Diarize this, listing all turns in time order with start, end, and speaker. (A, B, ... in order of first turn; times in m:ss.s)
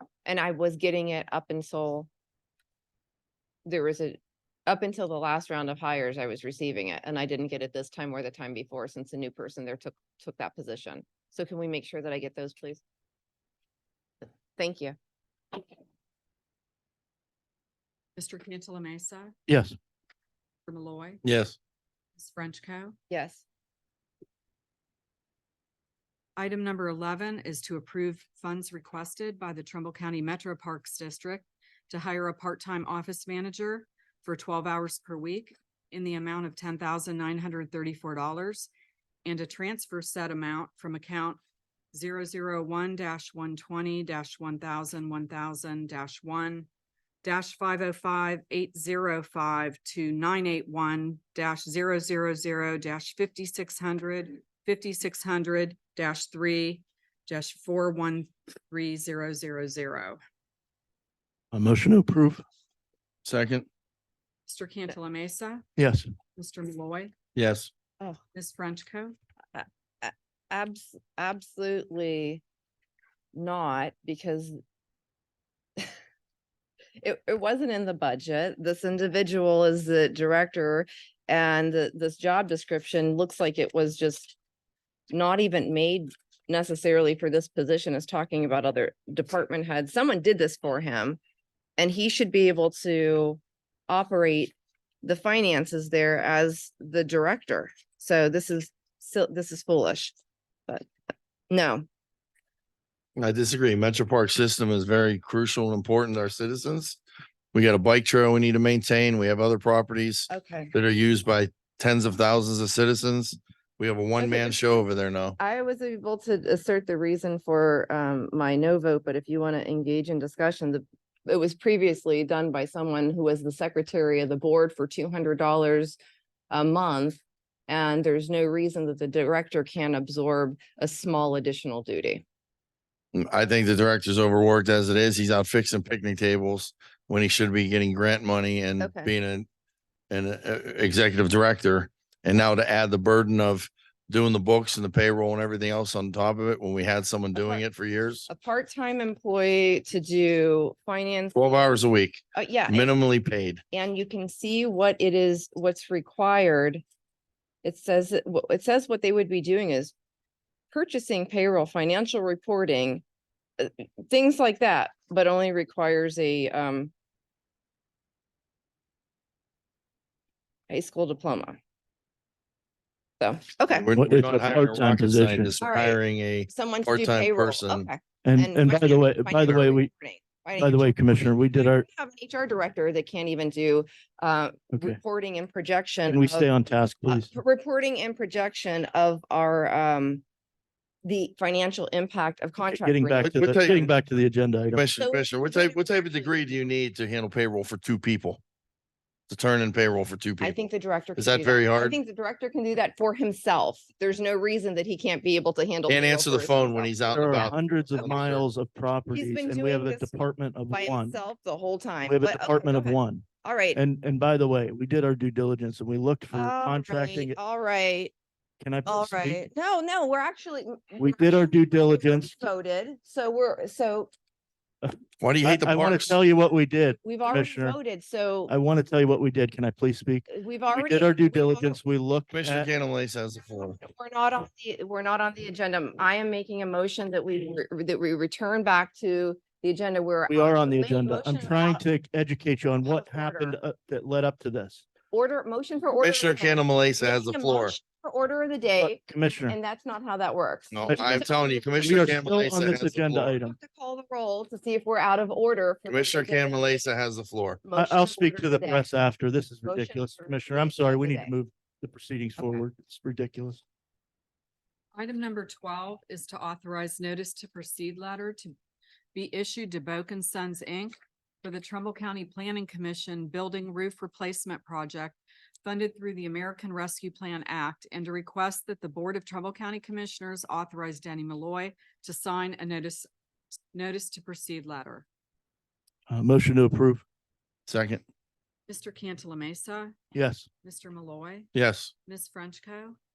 0:00.2-0:02.1 A
0:03.6-0:12.8 A
0:14.6-0:14.9 A
0:18.2-0:19.3 B
0:19.5-0:19.7 C
0:20.7-0:21.2 B
0:21.2-0:21.6 D
0:22.2-0:22.9 B
0:23.1-0:23.4 A
0:26.4-0:38.7 B
0:39.2-0:41.4 B
0:41.9-0:46.7 B
0:47.2-1:00.2 B
1:01.5-1:02.4 C
1:03.2-1:03.6 D
1:04.5-1:05.6 B
1:05.8-1:06.1 C
1:06.4-1:07.1 B
1:07.3-1:07.7 D
1:08.3-1:09.2 B
1:09.5-1:12.4 A
1:13.3-1:14.6 A
1:17.0-1:24.4 A
1:25.1-1:31.2 A
1:31.8-1:40.2 A
1:41.5-1:41.8 A
1:43.2-1:47.0 D
1:47.5-1:55.4 D
1:50.3-1:50.7 A
1:54.2-1:54.8 A
1:55.4-2:06.0 A
2:06.5-2:12.2 A
2:13.1-2:19.5 D
2:18.8-2:19.1 A
2:20.1-2:28.3 D
2:27.3-2:27.6 A
2:28.3-2:31.3 A
2:31.3-2:33.6 D
2:32.3-2:32.9 A
2:33.7-2:36.8 A
2:37.6-2:39.9 A
2:40.7-2:43.0 A
2:43.6-2:46.9 A
2:50.7-2:51.6 A
2:53.2-2:53.9 A
2:53.8-2:57.9 D
2:53.9-2:55.5 C
2:55.6-3:06.5 A
2:58.2-2:59.9 C
3:00.6-3:01.8 C
3:04.7-3:05.0 C
3:06.1-3:07.3 C
3:07.0-3:10.2 A
3:11.0-3:13.8 A
3:12.7-3:14.8 C
3:13.2-3:13.9 D
3:14.7-3:18.4 D
3:15.0-3:16.5 A
3:19.3-3:20.6 D
3:20.4-3:27.4 A
3:21.2-3:22.0 D
3:25.9-3:28.5 D
3:27.1-3:31.2 C
3:27.9-3:28.4 A
3:29.1-3:30.1 A
3:30.7-3:33.8 A
3:32.0-3:37.4 C
3:36.3-3:38.1 A
3:38.6-3:39.4 C
3:38.8-3:44.1 A
3:41.0-3:42.4 C
3:44.8-3:47.8 C
3:45.2-3:46.2 D
3:47.0-3:48.5 A
3:48.5-3:52.7 C
3:50.3-3:51.8 A
3:52.3-3:53.8 D
3:53.5-4:01.8 A
4:00.3-4:04.8 C
4:02.8-4:03.5 A
4:05.1-4:12.4 A
4:06.0-4:07.8 D
4:08.8-4:09.6 C
4:10.7-4:13.3 D
4:10.9-4:11.2 C
4:11.8-4:13.6 C
4:13.4-4:16.8 A
4:15.9-4:17.6 D
4:17.6-4:18.9 A
4:17.8-4:23.6 C
4:19.6-4:21.3 A
4:24.9-4:28.5 B
4:29.1-4:43.1 B
4:43.7-4:45.0 B
4:46.1-4:47.0 C
4:47.7-4:48.0 D
4:48.7-4:50.0 B
4:50.1-4:50.5 C
4:50.6-4:51.5 B
4:51.5-4:51.9 D
4:52.0-4:53.0 B